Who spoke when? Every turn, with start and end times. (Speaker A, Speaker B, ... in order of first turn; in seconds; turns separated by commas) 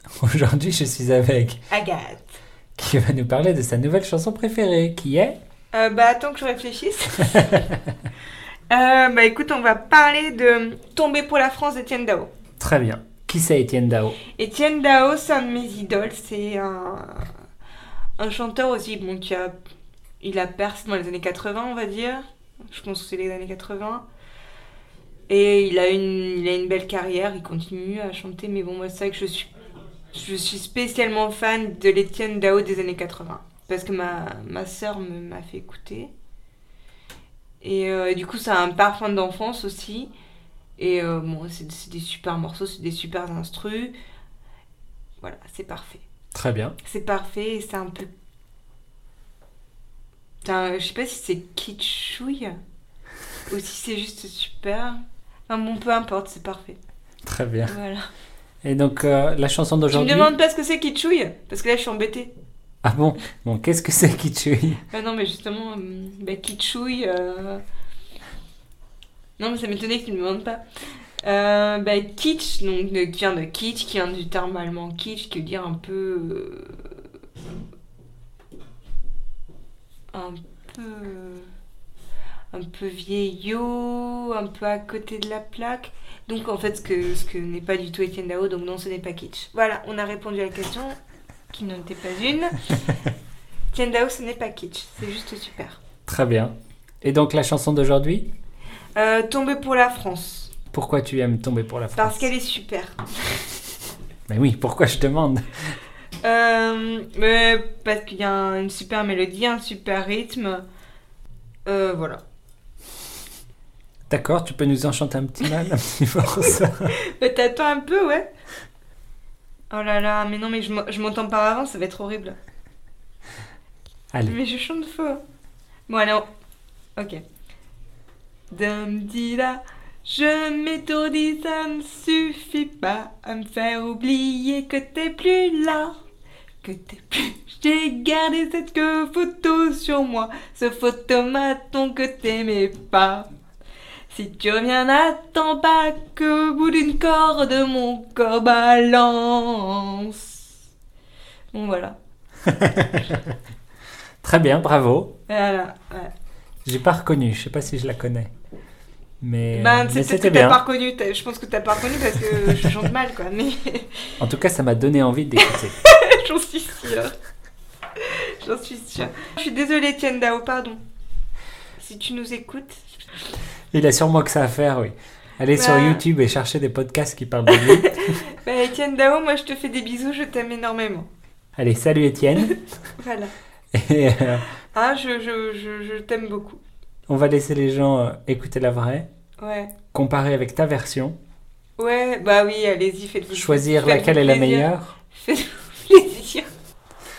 Speaker A: 0.2-1.6, Speaker B: 1.7-2.4, Speaker A: 2.8-5.4, Speaker B: 5.7-7.7, Speaker B: 8.7-12.3, Speaker A: 12.6-14.2, Speaker B: 14.3-17.3, Speaker B: 18.2-19.6, Speaker B: 20.2-24.0, Speaker B: 25.3-29.5, Speaker B: 30.1-36.1, Speaker B: 37.6-40.1, Speaker B: 40.8-43.9, Speaker B: 45.2-46.0, Speaker A: 46.3-46.8, Speaker B: 46.9-48.1, Speaker B: 50.4-52.6, Speaker B: 53.5-56.8, Speaker A: 57.3-57.8, Speaker B: 57.6-58.1, Speaker A: 58.6-60.3, Speaker B: 59.9-62.3, Speaker A: 62.8-64.8, Speaker B: 64.9-67.6, Speaker B: 69.4-70.6, Speaker B: 71.2-76.9, Speaker B: 80.1-81.5, Speaker B: 82.5-91.0, Speaker B: 91.5-92.8, Speaker B: 93.7-95.8, Speaker A: 96.1-98.3, Speaker B: 99.0-100.5, Speaker A: 100.7-102.3, Speaker B: 102.0-103.5, Speaker A: 104.3-105.5, Speaker B: 106.2-110.6, Speaker B: 111.7-112.2, Speaker A: 114.1-116.9, Speaker B: 117.0-118.3, Speaker B: 119.7-122.4, Speaker B: 124.3-125.2, Speaker B: 125.9-126.2, Speaker B: 127.0-127.2, Speaker B: 128.5-135.9, Speaker B: 136.6-143.3, Speaker B: 144.1-150.4, Speaker B: 151.5-152.0, Speaker A: 152.4-153.2, Speaker A: 154.2-155.1, Speaker B: 155.3-156.1, Speaker A: 156.7-158.3, Speaker A: 159.2-160.6, Speaker B: 159.5-164.2, Speaker A: 164.2-165.8, Speaker B: 165.4-167.2, Speaker B: 168.0-170.8, Speaker B: 171.8-173.0, Speaker A: 173.7-178.1, Speaker B: 175.5-176.0, Speaker B: 177.5-181.1, Speaker A: 181.6-182.6, Speaker B: 182.5-183.3, Speaker A: 183.7-184.4, Speaker B: 184.7-186.6, Speaker A: 187.1-189.1, Speaker B: 189.4-189.8, Speaker A: 189.9-191.2, Speaker B: 191.8-196.5, Speaker A: 193.3-195.0